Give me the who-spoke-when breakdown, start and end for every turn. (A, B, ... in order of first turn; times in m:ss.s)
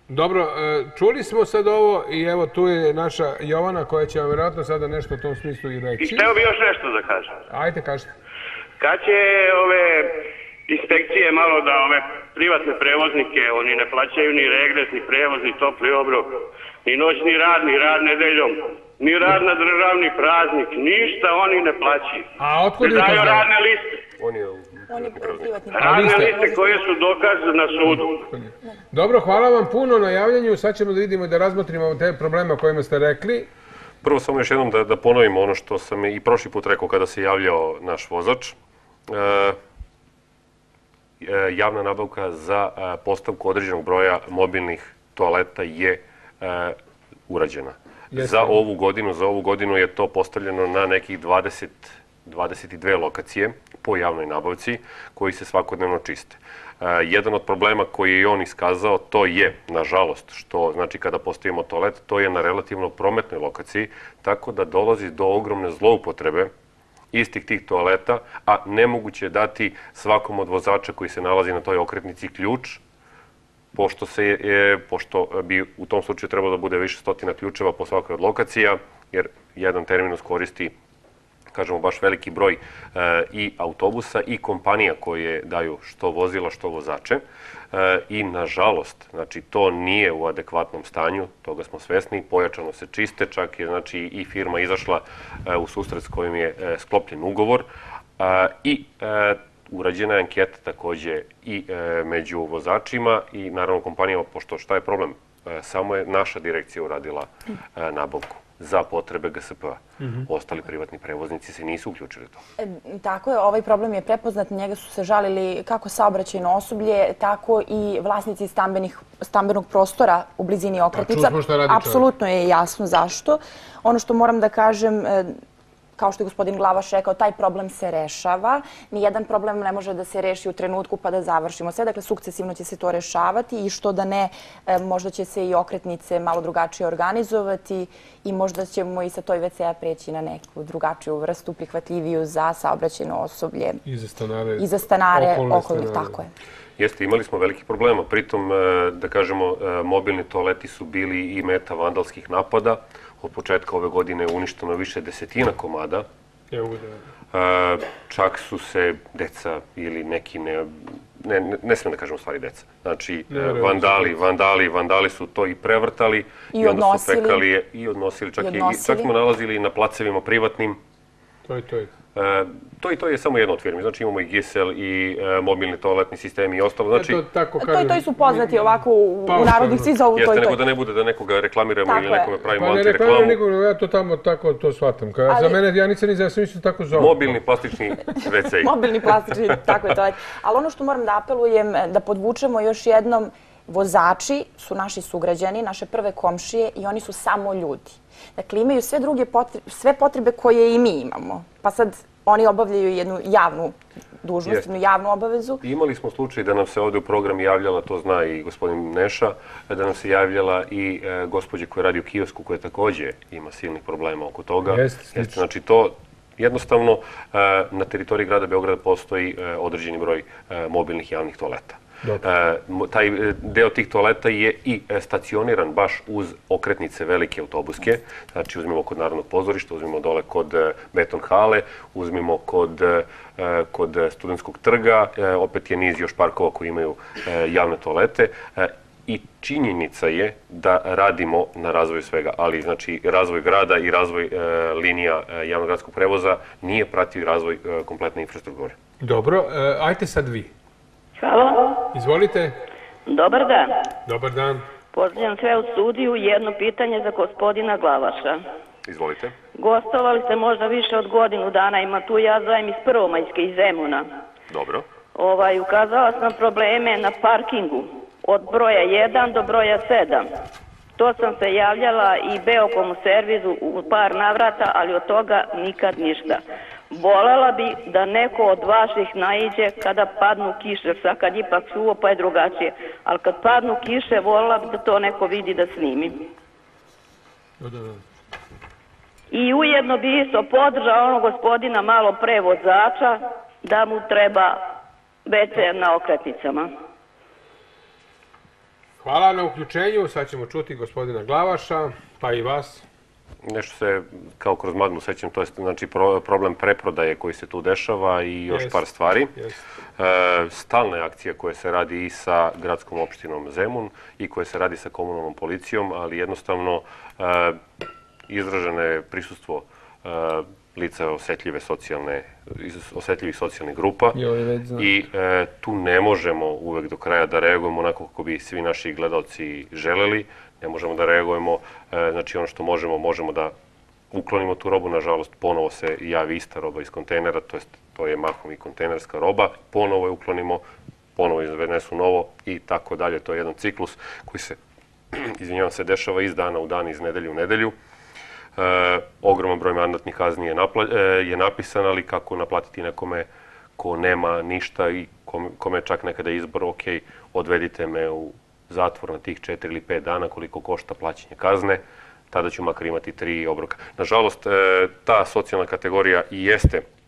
0:00.1-0:06.3 A
0:06.0-0:07.4 B
0:07.5-0:08.1 A
0:08.8-0:24.0 B
0:22.4-0:23.5 A
0:24.2-0:25.6 C
0:24.9-0:26.8 D
0:25.7-0:28.3 B
0:25.8-0:26.4 A
0:28.3-0:33.5 A
0:34.0-0:38.6 C
0:39.1-0:39.6 C
0:41.2-0:46.8 C
0:47.3-1:06.5 C
0:48.1-0:48.6 A
1:07.1-1:12.8 C
1:13.7-1:20.7 C
1:21.5-1:27.2 C
1:27.7-1:37.7 C
1:38.2-1:52.4 C
1:50.0-1:50.3 A
1:52.6-2:05.4 D
2:00.9-2:02.0 A
2:06.0-2:23.8 D
2:23.8-2:26.2 A
2:24.6-2:26.3 D
2:26.8-2:36.1 C
2:36.5-2:37.0 A
2:37.3-2:50.8 C
2:43.3-2:44.2 A
2:46.5-2:47.4 D
2:48.4-2:49.1 D
2:51.5-2:51.9 A
2:52.2-2:57.2 C
2:56.9-2:58.7 A
2:57.6-3:00.6 D
2:59.3-2:59.9 A
3:00.2-3:03.4 C
3:01.9-3:02.3 D
3:02.6-3:07.4 A
3:05.3-3:05.6 D
3:07.0-3:08.7 C
3:08.6-3:25.6 D
3:25.6-4:08.8 C
3:34.7-3:35.4 A
4:09.0-4:10.5 A
4:11.2-4:11.9 E
4:11.9-4:12.6 A
4:13.1-4:13.8 E
4:14.1-4:14.6 A
4:14.9-4:18.4 E
4:18.9-4:19.4 C
4:19.6-4:24.1 E
4:24.5-4:24.9 C
4:25.2-4:30.3 E
4:31.0-4:46.1 E
4:47.6-4:48.0 A
4:49.3-4:54.6 E
4:55.2-4:56.7 E
4:59.0-5:02.8 A
5:03.4-5:09.3 C
5:08.5-5:08.8 A
5:10.0-5:17.6 C
5:18.3-5:24.2 C
5:24.1-5:25.0 A
5:24.8-5:33.5 C
5:34.1-5:40.6 C
5:41.2-5:44.6 C
5:45.1-5:47.8 C
5:48.6-5:53.3 C
5:53.8-6:06.8 C